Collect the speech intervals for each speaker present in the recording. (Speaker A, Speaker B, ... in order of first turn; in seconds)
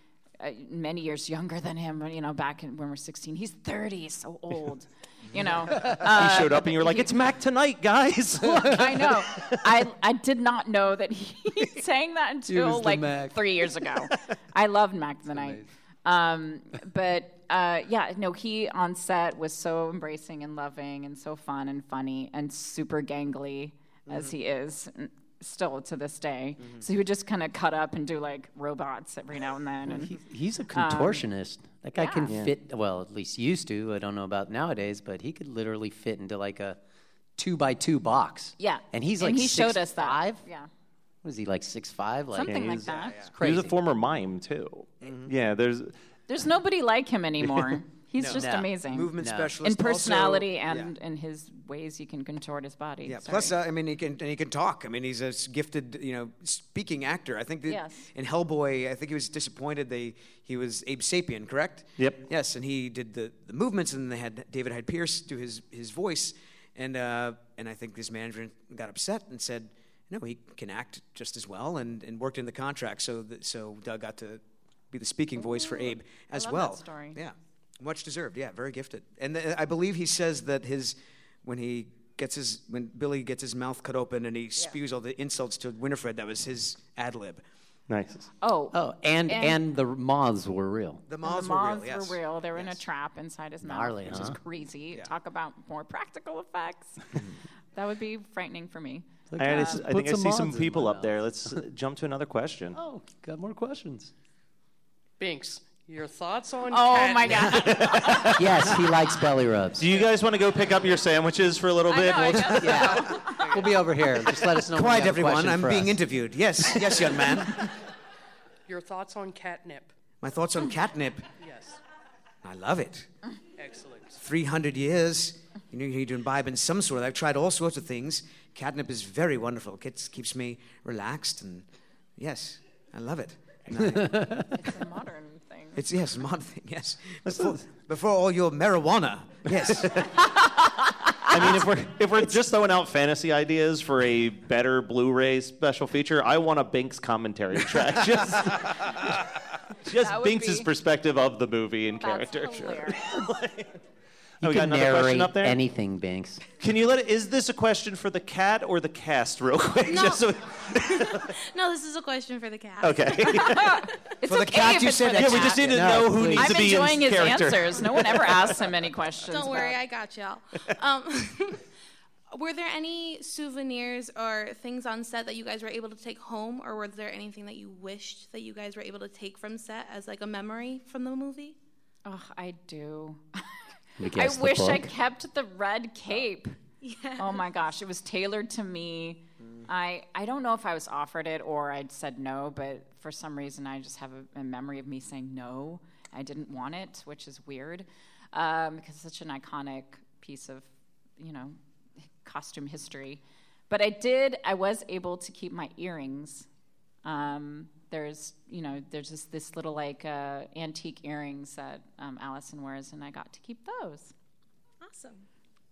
Speaker A: 0.4-7.1, 8.4-30.2, 30.7-31.2, 31.9-32.3, 38.6-40.7, 42.3-43.2, 46.3-53.5, 57.7-58.1, 75.4-77.2, 88.4-89.6, 91.2-97.0, 97.7-99.8, 106.7-108.3, 111.9-113.3, 134.5-135.8, 150.0-150.7, 152.0-153.0, 163.5-165.7, 166.3-169.8, 182.0-183.4, 184.0-186.5, 187.2-200.7, 201.2-201.6, 202.2-206.5, 207.0-214.1
Speaker B: 5.8-9.5, 32.3-32.5, 42.4-42.9, 43.4-45.9, 87.9-88.3, 99.4-102.8, 107.6-108.5, 109.8-112.9, 137.2-137.6, 139.7-140.0, 141.3-149.2, 149.8-153.7, 154.4-155.6, 156.6-161.3, 162.8-163.8, 165.2-168.4
Speaker C: 12.5-13.4, 15.3-15.7, 29.9-36.8, 37.4-40.4, 41.2-43.8, 48.3-49.6, 88.7-91.0, 93.6-94.4, 99.3-101.6, 102.7-104.1, 108.3-109.9, 112.5-116.0, 133.7-134.5, 154.4-156.4, 165.7-166.7, 184.0-184.9
Speaker D: 24.1-24.3, 42.9-43.3, 45.0-45.3, 48.2-50.9, 53.0-87.4, 91.1-92.8, 114.5-117.6, 120.2-121.2, 122.4-123.1, 124.2-131.7, 132.2-134.2, 135.8-140.0, 164.2-166.0, 189.4-189.7
Speaker E: 105.2-107.8, 113.4-113.8, 118.7-119.9, 121.4-121.8, 123.6-124.2
Speaker F: 159.9-160.2, 160.8-163.4, 169.3-171.6, 172.3-181.6, 186.8-187.4